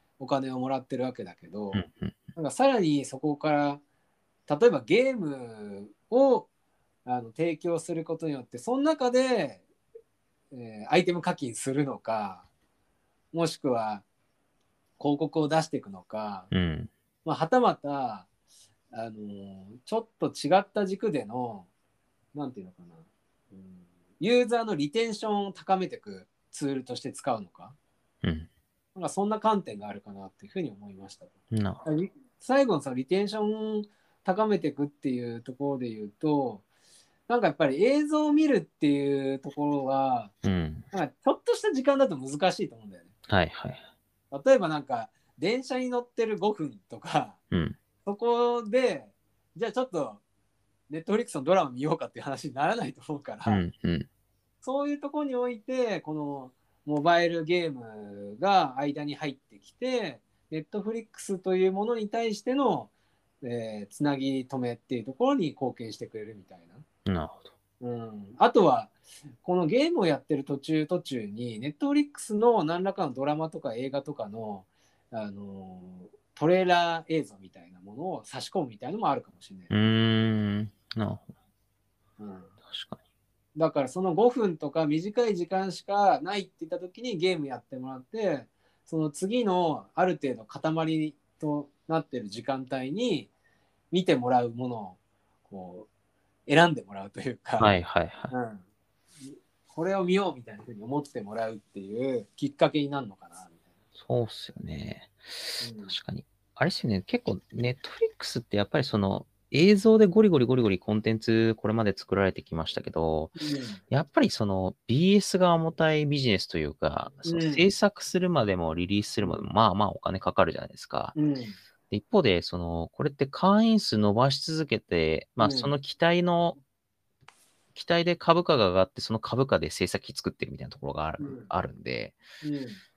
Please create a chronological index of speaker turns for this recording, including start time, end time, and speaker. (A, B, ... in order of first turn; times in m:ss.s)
0:00.2-0:01.8 A
0:01.7-0:02.2 B
0:02.3-0:03.8 A
0:04.5-0:06.5 A
0:07.0-0:09.6 A
0:10.5-0:12.5 A
0:13.3-0:14.0 A
0:15.0-0:16.5 A
0:16.5-0:16.9 B
0:17.2-0:18.3 A
0:18.9-0:21.7 A
0:22.3-0:27.8 A
0:28.2-0:28.5 B
0:28.9-0:31.3 A
0:31.5-0:31.9 B
0:31.8-0:36.6 A
0:37.3-0:40.3 A
0:40.4-0:40.9 B
0:40.9-0:43.1 A
0:43.3-0:43.8 B
0:44.3-0:47.4 A
0:47.5-0:47.8 B
0:48.0-0:50.2 A
0:50.9-0:53.6 A
0:53.5-0:54.1 B
0:54.6-1:06.8 A
1:07.1-1:07.5 B
1:07.8-1:19.7 A
1:19.7-1:21.3 B
1:22.2-1:22.5 A
1:22.7-1:23.0 B
1:23.6-1:33.3 A
1:33.9-1:35.9 A
1:36.5-1:37.8 A
1:37.6-1:38.3 B
1:38.3-1:38.6 A
1:39.2-1:43.6 A
1:43.9-1:53.4 B
1:45.6-1:46.0 A
1:53.4-1:53.8 A
1:53.9-2:01.1 B
1:57.2-1:57.7 A
1:59.2-1:59.5 A
2:01.1-2:01.6 A
2:01.9-2:06.6 B
2:05.4-2:05.7 A
2:07.8-2:12.2 B
2:11.2-2:11.5 A
2:12.4-2:12.8 A